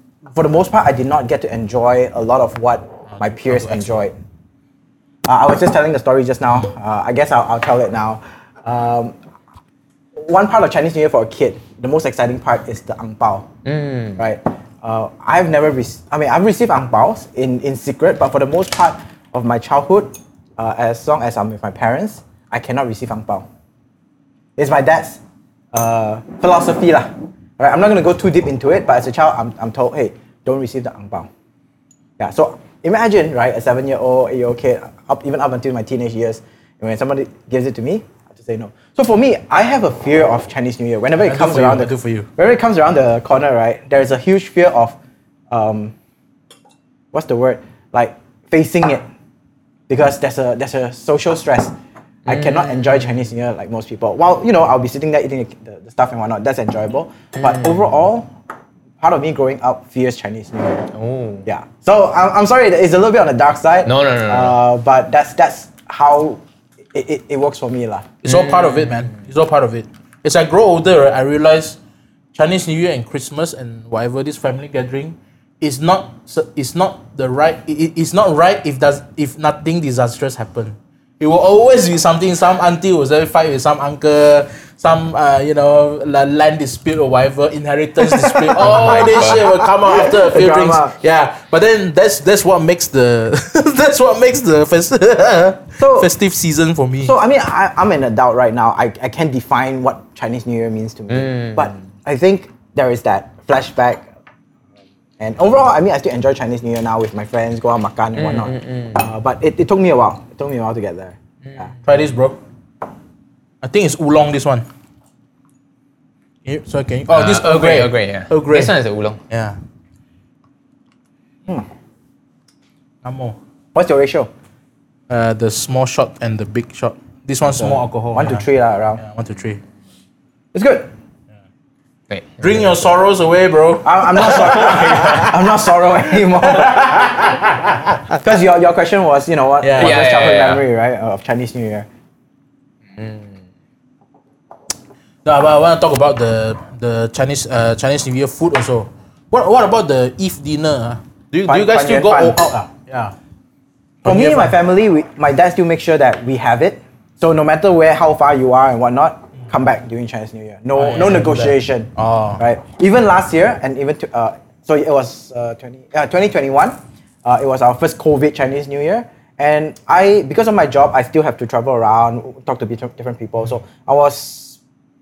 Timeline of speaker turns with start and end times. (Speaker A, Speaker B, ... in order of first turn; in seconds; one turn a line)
Speaker A: 0.3-4.1
Speaker B: 3.1-4.1
Speaker A: 5.2-9.2
Speaker A: 10.2-13.5
Speaker C: 13.6-14.2
Speaker A: 14.2-23.4
Speaker A: 24.6-25.2
Speaker A: 25.7-31.3
Speaker A: 32.2-45.0
Speaker B: 41.1-42.3
Speaker A: 45.5-45.9
Speaker A: 47.1-49.0
Speaker A: 49.9-51.7
Speaker A: 52.2-58.3
Speaker C: 52.3-53.0
Speaker C: 57.4-57.8
Speaker A: 59.0-60.9
Speaker C: 60.9-61.5
Speaker A: 61.5-66.4
Speaker C: 63.8-64.5
Speaker A: 66.9-68.1
Speaker B: 68.2-71.8
Speaker C: 68.3-69.2
Speaker B: 72.3-97.1
Speaker A: 88.2-91.0
Speaker C: 88.6-89.5
Speaker A: 95.8-96.1
Speaker A: 97.0-104.1
Speaker C: 101.1-101.8
Speaker A: 105.2-111.7
Speaker C: 108.1-109.0
Speaker B: 111.8-112.4
Speaker B: 113.6-114.7
Speaker B: 116.4-118.7
Speaker C: 117.1-119.2
Speaker B: 119.3-119.6
Speaker B: 123.0-123.4
Speaker A: 123.7-124.3
Speaker B: 125.1-128.4
Speaker A: 127.6-129.0
Speaker B: 129.0-129.6
Speaker A: 130.5-130.9
Speaker C: 132.1-132.7
Speaker B: 132.4-135.3
Speaker A: 133.8-137.1
Speaker B: 136.4-138.2
Speaker A: 138.2-141.9
Speaker B: 139.6-140.0
Speaker C: 139.8-140.6
Speaker C: 142.9-143.4
Speaker B: 145.2-153.1
Speaker A: 151.5-152.4
Speaker B: 154.0-154.6
Speaker A: 154.0-174.6
Speaker B: 160.7-162.4